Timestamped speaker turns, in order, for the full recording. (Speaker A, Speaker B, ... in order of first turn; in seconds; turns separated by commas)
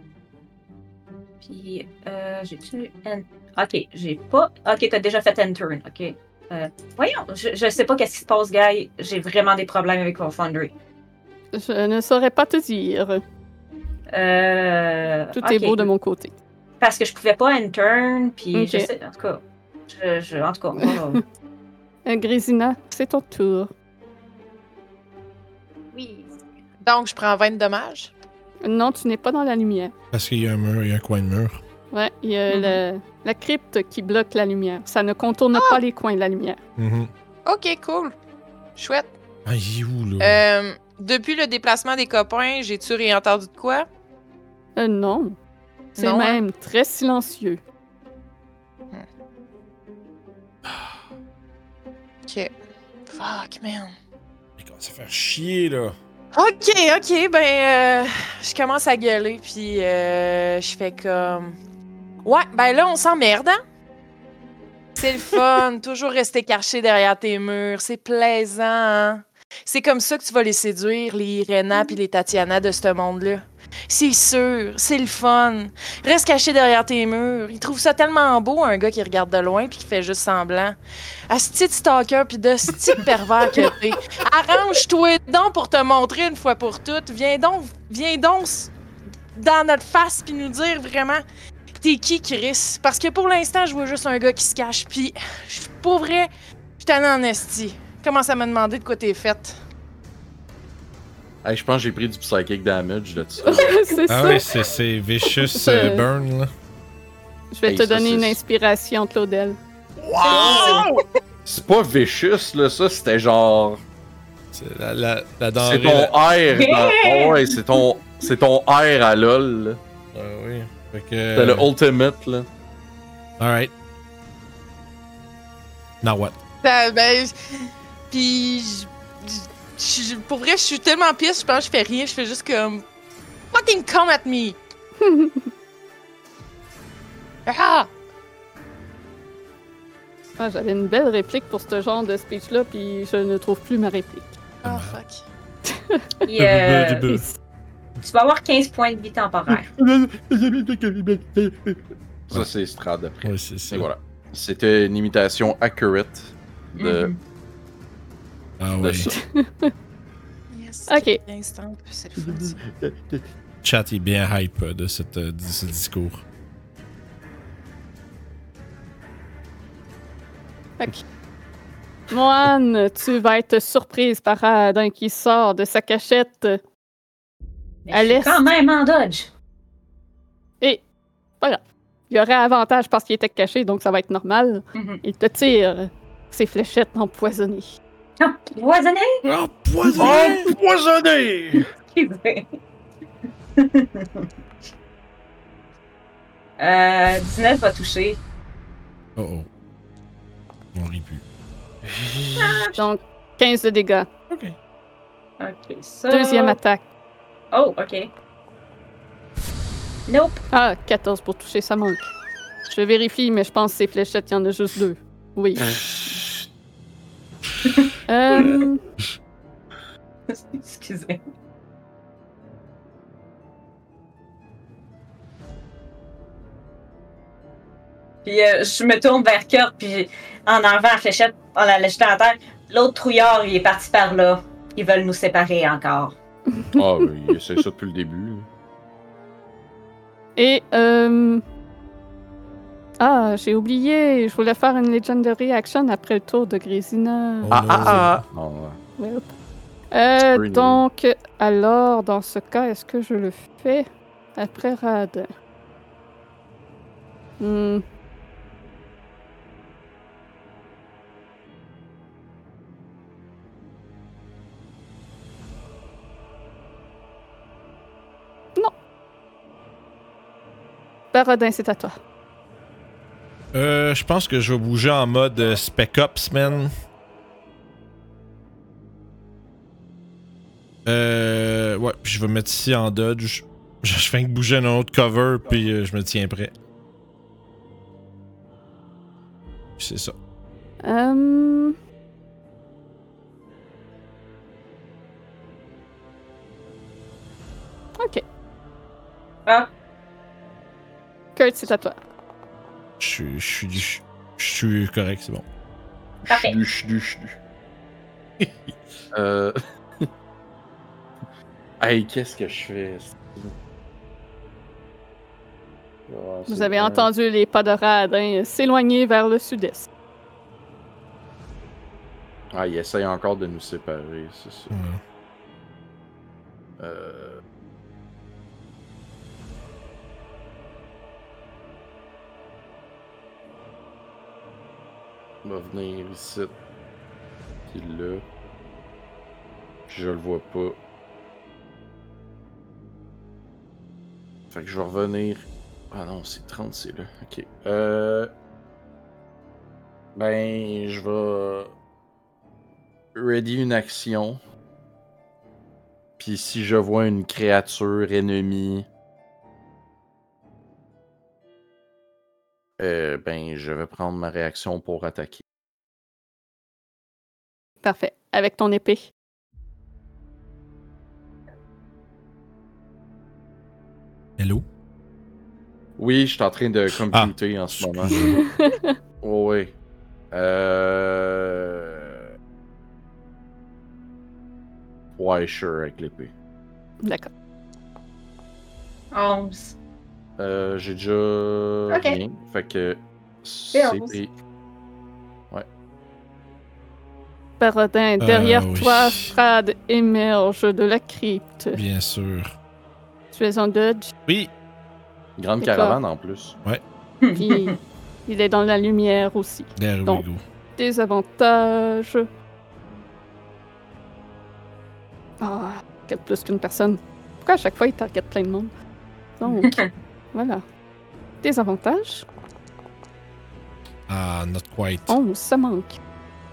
Speaker A: 1.4-10.7, Speaker B: 11.5-13.2, Speaker A: 14.1-15.9, Speaker B: 15.3-16.3, Speaker A: 16.8-21.2, Speaker B: 18.5-18.9, Speaker B: 22.1-23.7, Speaker C: 26.8-28.1, Speaker B: 28.6-29.9, Speaker D: 30.1-31.6, Speaker B: 31.9-36.6, Speaker C: 32.5-32.8, Speaker D: 36.8-37.1, Speaker C: 37.5-38.1, Speaker C: 38.8-39.1, Speaker D: 39.4-40.4, Speaker C: 40.2-43.9, Speaker B: 44.8-45.4, Speaker C: 46.0-46.4, Speaker B: 46.0-47.6, Speaker C: 52.3-52.5, Speaker C: 53.1-53.9, Speaker D: 54.6-56.0, Speaker C: 56.3-61.5, Speaker C: 62.2-63.6, Speaker C: 65.0-80.8, Speaker C: 81.3-88.7, Speaker C: 89.3-91.2, Speaker C: 91.8-99.6, Speaker E: 101.4-103.8, Speaker B: 103.4-104.5, Speaker D: 104.1-106.5, Speaker B: 105.3-106.0, Speaker B: 107.5-109.6, Speaker E: 107.7-108.4, Speaker D: 110.0-111.0, Speaker E: 110.2-110.8, Speaker A: 110.2-110.8, Speaker E: 111.5-113.8, Speaker D: 114.5-116.2, Speaker E: 115.6-119.8, Speaker A: 116.5-117.8, Speaker D: 120.1-121.7, Speaker E: 121.3-122.5, Speaker D: 123.4-123.7, Speaker D: 126.0-126.3, Speaker C: 126.6-132.8, Speaker C: 133.5-134.6, Speaker B: 135.0-135.5, Speaker C: 137.4-137.9, Speaker B: 140.4-144.3, Speaker D: 144.6-145.0, Speaker C: 144.6-145.2, Speaker B: 145.7-146.1, Speaker A: 146.2-147.2, Speaker D: 146.4-147.2, Speaker A: 148.0-149.7, Speaker E: 149.8-151.7, Speaker E: 152.3-157.1, Speaker D: 153.2-153.9, Speaker A: 156.8-157.2, Speaker D: 158.6-159.1, Speaker E: 158.8-159.1, Speaker B: 159.1-159.7, Speaker C: 160.5-162.6, Speaker B: 160.9-161.2, Speaker E: 162.2-163.2, Speaker D: 163.6-166.2, Speaker B: 172.1-176.6, Speaker A: 177.8-179.3, Speaker B: 177.9-178.4, Speaker B: 181.4-187.7, Speaker A: 184.7-185.0, Speaker A: 188.2-189.2, Speaker D: 189.2-190.8, Speaker E: 190.0-191.6, Speaker A: 190.0-190.4, Speaker A: 191.8-192.5, Speaker A: 193.6-194.3, Speaker A: 196.6-198.2, Speaker D: 199.2-199.5, Speaker D: 200.7-201.2, Speaker D: 201.9-202.6, Speaker A: 202.4-202.8, Speaker B: 202.8-204.1, Speaker D: 204.3-204.6, Speaker A: 205.4-206.6, Speaker B: 206.1-206.8, Speaker A: 207.5-208.1, Speaker A: 210.1-210.4, Speaker B: 210.5-212.1, Speaker B: 212.7-215.8, Speaker A: 217.7-218.5, Speaker B: 218.1-218.8, Speaker A: 220.3-221.2, Speaker A: 228.2-236.2, Speaker B: 236.5-236.8, Speaker E: 236.7-238.5, Speaker B: 240.4-241.4, Speaker B: 243.0-247.9, Speaker D: 247.4-248.2, Speaker E: 247.5-248.8, Speaker B: 249.0-249.3, Speaker B: 249.9-255.3, Speaker E: 250.2-250.8, Speaker B: 257.4-257.8, Speaker B: 271.1-272.0, Speaker D: 273.5-276.7, Speaker D: 280.9-286.5, Speaker D: 289.8-290.1, Speaker B: 290.8-291.8, Speaker B: 298.0-298.2, Speaker B: 301.4-301.9, Speaker D: 303.0-305.4, Speaker A: 306.3-306.6, Speaker E: 306.3-307.4, Speaker E: 309.1-310.1, Speaker E: 311.8-313.5, Speaker E: 316.1-317.1, Speaker B: 316.5-319.9, Speaker E: 322.5-324.7, Speaker D: 324.7-325.0, Speaker E: 326.8-327.4, Speaker E: 335.4-336.5, Speaker E: 337.7-338.2, Speaker E: 339.9-340.8, Speaker E: 344.5-348.3, Speaker E: 350.1-351.7, Speaker E: 353.1-354.4, Speaker E: 356.2-358.9, Speaker E: 362.8-365.4, Speaker B: 367.8-369.1, Speaker D: 374.4-374.6, Speaker E: 376.0-378.1, Speaker D: 377.1-378.4, Speaker B: 378.1-379.0, Speaker E: 379.2-379.7, Speaker E: 380.3-382.2, Speaker E: 385.1-386.3, Speaker B: 387.0-387.3, Speaker A: 389.1-389.8, Speaker E: 390.4-394.3, Speaker A: 391.9-392.2, Speaker A: 393.7-394.2, Speaker B: 397.6-401.8, Speaker D: 398.2-399.3, Speaker D: 401.7-402.5, Speaker B: 403.3-404.1, Speaker E: 405.4-406.5, Speaker B: 405.6-406.0, Speaker A: 407.2-407.8, Speaker B: 407.4-410.2, Speaker D: 409.8-410.4, Speaker B: 410.8-412.3, Speaker B: 415.4-418.7, Speaker B: 419.4-419.8, Speaker A: 419.6-419.9, Speaker B: 420.3-420.6, Speaker B: 421.4-422.2, Speaker D: 424.1-425.2, Speaker B: 425.1-426.0